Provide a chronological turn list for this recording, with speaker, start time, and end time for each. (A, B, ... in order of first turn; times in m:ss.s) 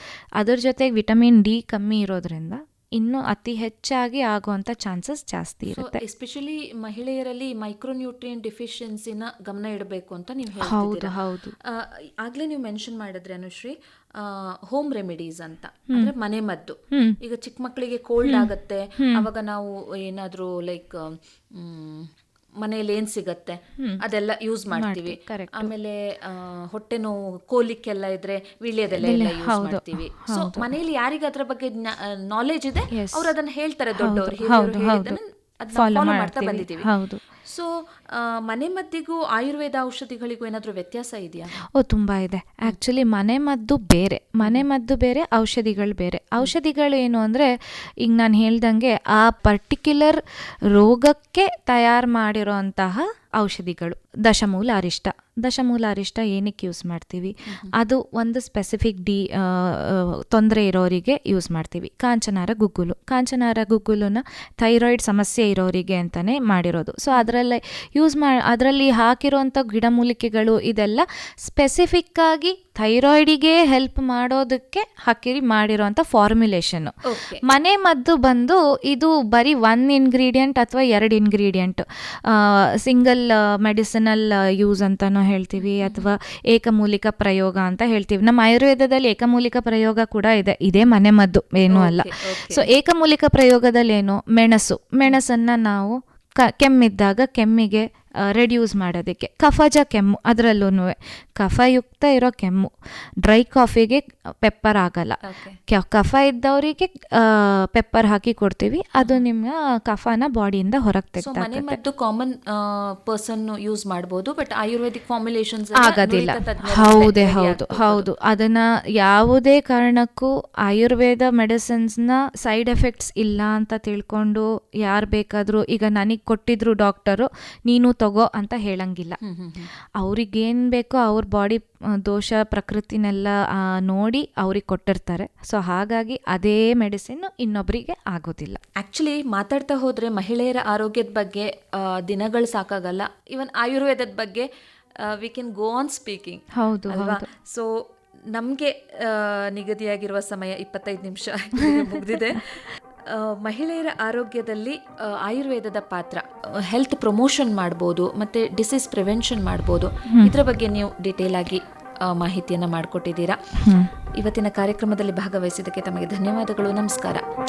0:00.4-0:06.0 A
0:05.7-0:41.6 B
0:10.6-0:11.6 A
0:16.9-0:17.2 A
0:18.2-0:19.3 A
0:24.7-0:25.7 A
0:29.0-0:30.7 A
0:32.9-0:33.3 A
0:34.0-0:35.2 A
0:35.7-0:37.2 A
0:41.6-1:51.8 A
1:17.1-1:17.4 B
1:25.6-1:26.1 B
1:31.7-1:32.7 B
1:45.2-1:45.6 B
1:51.2-1:58.1 B
1:55.8-2:09.2 A
2:09.2-2:09.7 B
2:10.0-2:18.6 A
2:18.8-2:24.5 B
2:25.0-2:27.7 B
2:26.5-2:27.3 A
2:28.3-2:43.4 B
2:31.6-2:32.2 A
2:40.1-2:40.4 A
2:43.6-2:43.9 A
2:44.2-2:47.2 B